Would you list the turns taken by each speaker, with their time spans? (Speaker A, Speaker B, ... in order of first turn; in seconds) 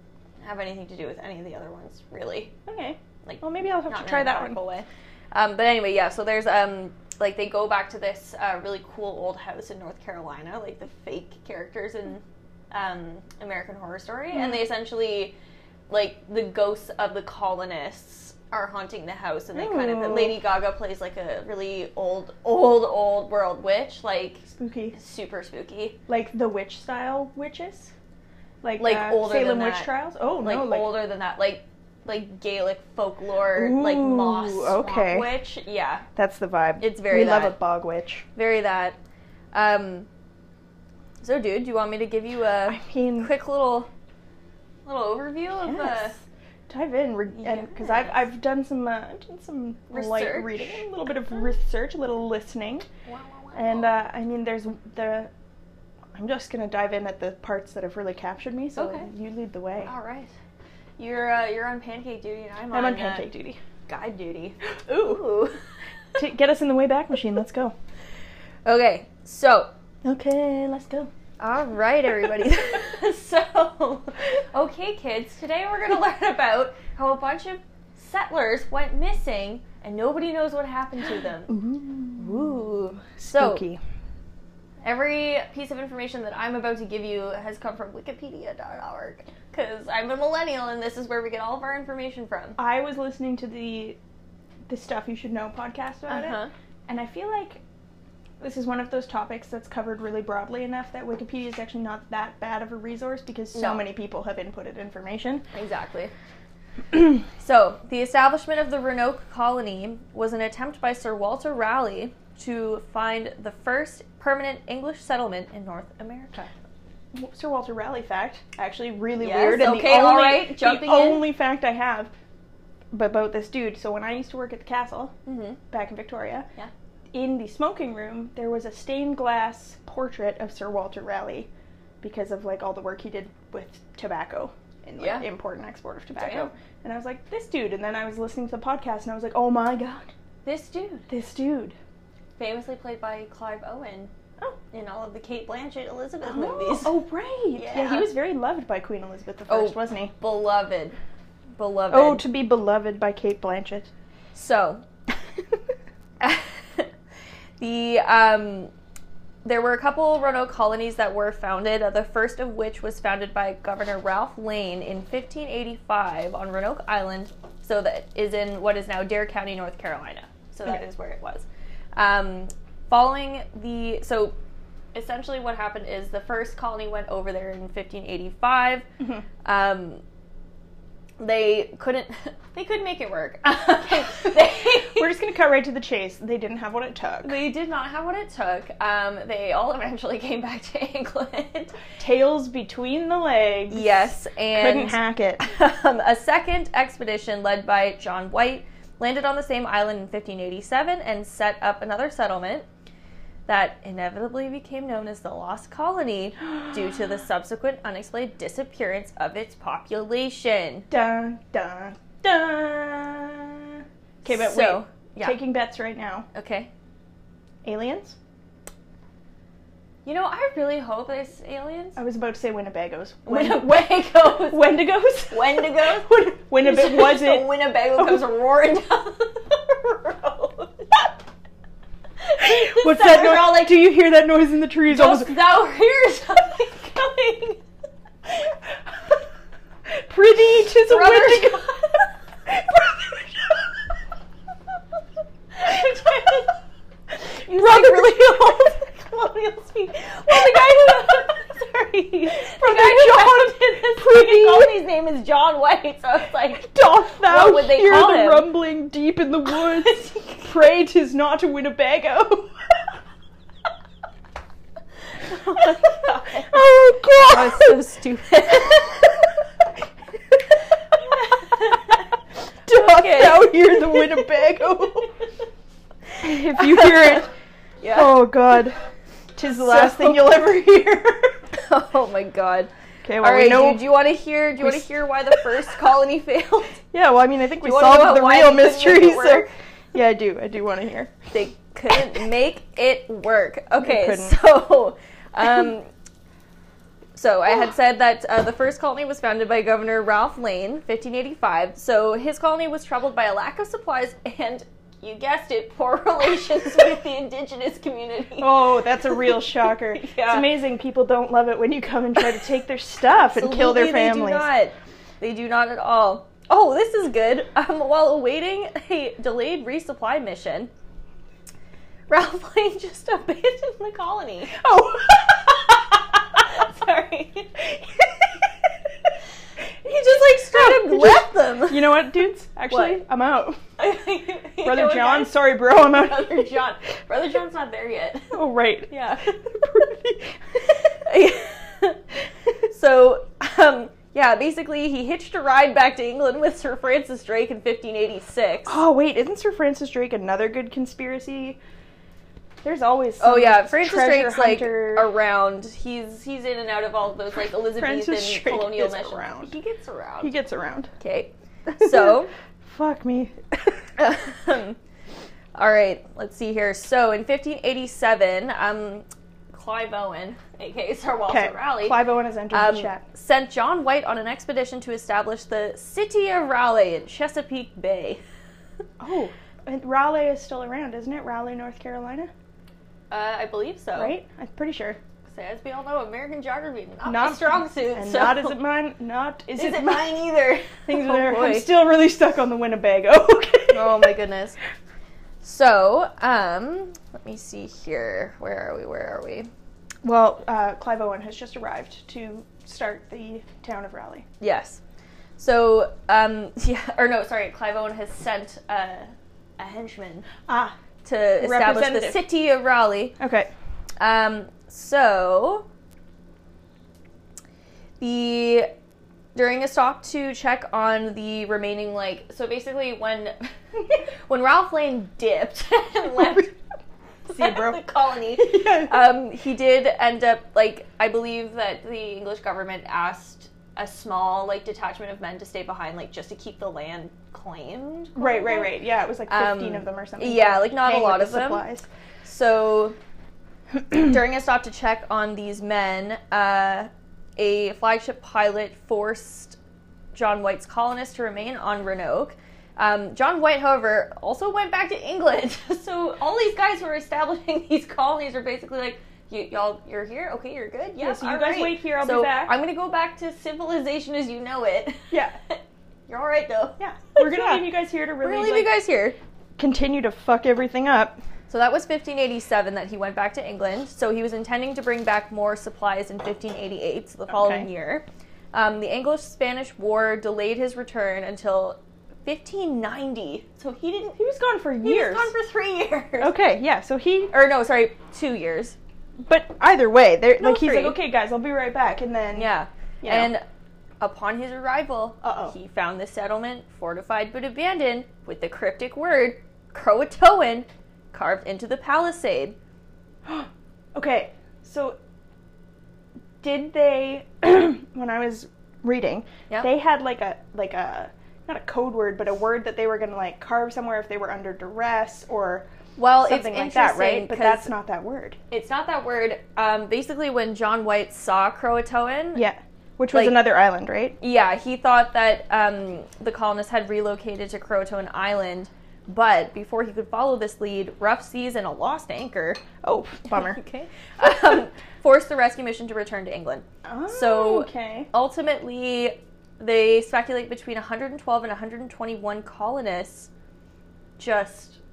Speaker A: 0.4-2.5, 3.2-15.3, 15.9-26.0, 28.8-36.0, 36.8-37.6, 38.4-39.0, 39.5-40.1, 41.2-43.9, 44.8-46.2, 47.4-48.2, 49.9-50.8, 53.0-53.9, 58.8-59.1, 59.8-60.3, 61.0-63.2, 63.9-65.6, 68.6-69.7, 71.4-81.6, 82.2-83.6, 84.8-92.6, 96.1-96.5, 103.5-103.8, 105.5-106.1, 107.4-116.5, 119.2-121.3, 125.2-125.6, 135.0-135.2, 136.1-136.5, 140.4-141.1, 142.4-144.1, 144.7-146.9, 147.5-148.1, 149.5-150.9, 151.6-152.2, 154.3-154.8, 156.2-156.9, 157.6-158.7, 159.4-174.3, 174.9-178.8, 179.4-180.0, 181.2-185.1, 187.2-191.7, 193.7-202.7, 203.5-210.9, 214.2-215.4, 216.3-216.7, 220.0-222.0, 223.2-231.1, 232.2-233.8, 234.9-237.6, 240.8-242.1, 245.5-246.6, 247.4-258.5, 259.5-260.5, 265.3-266.6, 267.2-269.1, 271.2-272.0, 272.7-274.1, 276.2-277.2, 277.8-278.2, 279.6-280.4, 281.5-286.8, 287.6-289.5, 291.3-295.9, 297.1-310.5, 313.1-320.7, 322.1-324.6, 325.9-327.6, 329.8-332.0, 332.7-333.0, 333.8-339.3, 340.9-342.0, 342.6-348.8, 353.2-360.3, 361.0-362.3, 364.0-364.8, 365.5-372.0, 372.5-378.2, 383.1-384.1, 385.3-388.6, 389.6-391.7, 393.7-394.6, 395.4-399.5, 404.4-404.8, 405.4-410.3, 411.0-413.2, 414.0-415.6, 418.0-418.7, 419.3-423.5, 424.2-426.5, 427.3-438.7, 439.3-441.6, 442.2-443.0, 443.9-449.6, 450.1-469.2, 471.5-484.2, 484.8-486.4, 487.3-488.8, 490.4-491.0, 492.3-493.4, 494.0-502.6, 516.0-517.7, 518.5-522.4, 523.1-523.4, 524.2-532.6, 533.3-543.3, 544.2-544.8
Speaker B: 2.6-4.6, 19.5-20.4, 24.5-24.9, 26.1-27.9, 28.6-31.0, 33.5-35.3, 36.1-38.2, 42.7-43.3, 45.6-52.9, 53.5-55.3, 56.1-59.9, 62.7-63.6, 64.9-65.2, 66.2-67.7, 70.0-71.1, 81.5-83.8, 92.6-94.0, 94.7-97.6, 98.4-105.4, 117.1-122.1, 122.9-125.1, 125.7-126.5, 127.1-131.5, 132.0-140.1, 141.1-141.8, 146.2-150.1, 151.9-153.9, 184.9-187.4, 192.0-195.4, 210.9-216.3, 217.6-218.2, 221.9-228.3, 232.4-235.4, 239.9-241.7, 242.4-243.6, 247.5-248.6, 252.3-254.8, 256.6-262.9, 265.6-267.8, 272.7-275.1, 276.2-277.3, 277.9-278.8, 279.4-281.4, 283.0-283.9, 284.6-284.9, 286.9-291.1, 293.8-294.4, 308.4-314.5, 324.5-325.7, 327.9-328.4, 330.4-333.6, 334.6-336.5, 338.3-340.4, 348.6-351.6, 352.6-355.1, 357.6-359.5, 360.2-360.9, 361.7-363.8, 371.3-373.0, 379.0-382.3, 383.9-385.0, 387.0-394.1, 400.0-404.2, 410.5-410.8, 411.4-412.2, 413.2-413.5, 427.3-427.8, 428.4-429.0, 438.1-441.9, 461.0-462.5, 465.1-465.4, 466.8-468.7, 469.6-471.2, 477.3-477.7, 484.1-485.3, 486.2-487.3, 489.2-493.3, 495.2-495.5, 503.2-505.0, 506.4-515.6, 516.2-518.4, 522.3-524.2, 532.8-533.6, 536.8-538.1